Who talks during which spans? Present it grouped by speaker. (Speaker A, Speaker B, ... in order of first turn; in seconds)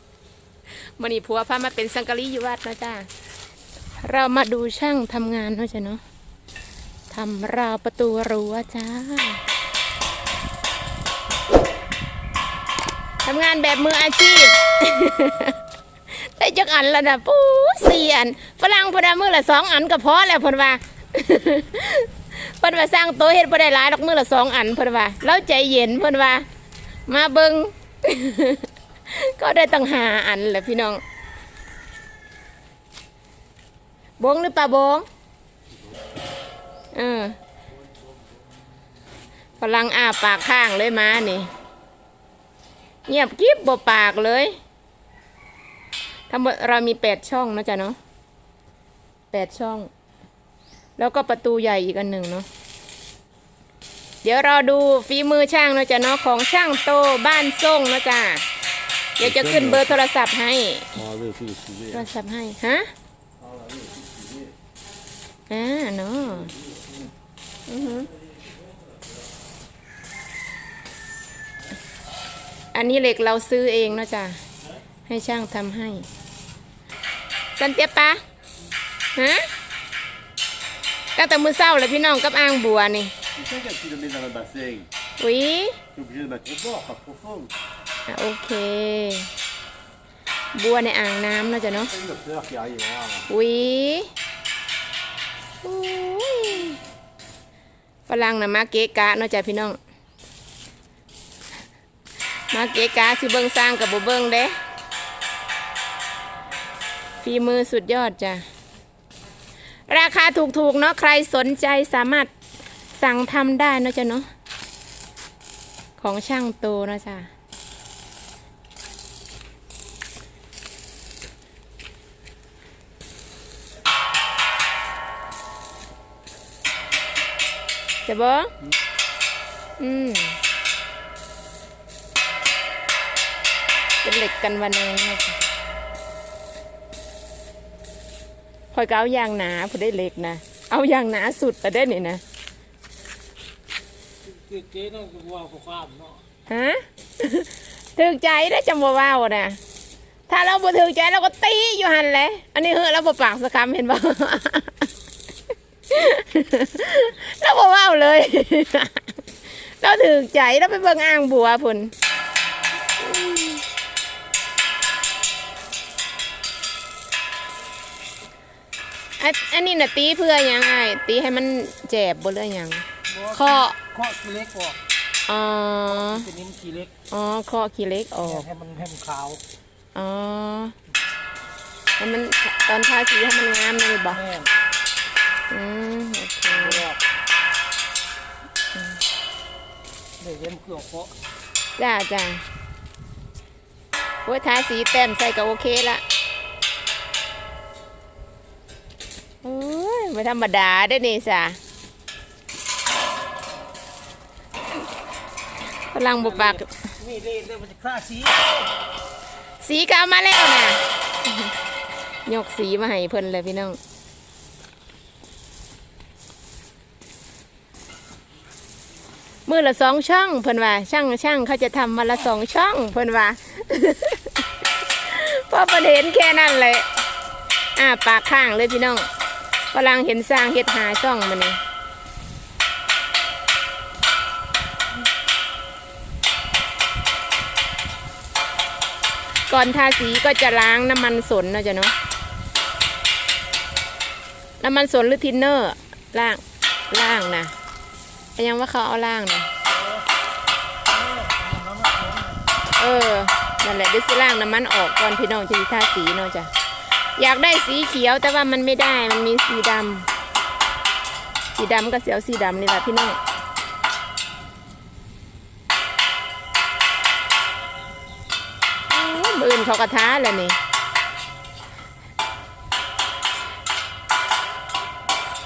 Speaker A: 0.7-3.1, 4.0-6.0, 7.1-9.4, 13.2-15.6, 16.1-26.4, 27.1-31.0, 34.2-35.1, 36.9-37.4, 39.6-41.5, 43.1-44.6, 46.3-48.0, 49.3-49.9, 51.0-52.5, 54.2-58.4, 59.2-61.0, 61.9-62.9, 65.5-66.5, 67.7-68.1, 72.7-74.4, 75.0-76.1, 77.5-78.2, 79.2-79.5, 81.2-83.1, 85.2-85.8, 88.1-89.3, 90.5-91.9, 93.3-94.1, 95.6-96.8, 98.1-99.8, 102.5-104.5, 107.2-108.5, 109.9-112.3, 113.0-114.3, 116.0-117.3, 128.0-128.5, 129.8-130.4, 134.0-135.4, 138.7-142.2, 146.5-149.6, 150.3-154.9, 155.9-161.9, 163.0-163.6, 169.2-173.8, 175.3-176.3, 177.1-178.5, 179.9-180.7, 182.0-184.2, 185.5-186.8, 191.8-192.4, 194.2-196.0, 199.4-201.6, 205.9-206.7, 209.6-211.5, 212.2-213.8, 219.4-224.4, 225.0-226.9, 227.8-229.1, 229.7-231.6, 239.5-241.9, 244.6-247.5, 248.3-249.5, 252.8-256.5, 257.2-260.1, 261.6-263.2, 268.9-270.6
Speaker B: 59.2-59.9, 61.0-62.0, 63.4-64.5, 83.3-84.9, 85.9-87.5, 91.9-93.3
Speaker C: 144.2-146.2, 173.1-174.8, 175.9-176.9, 178.2-179.4, 184.1-184.5, 186.5-187.0, 190.2-191.1, 206.2-208.7, 249.7-250.1, 250.8-252.4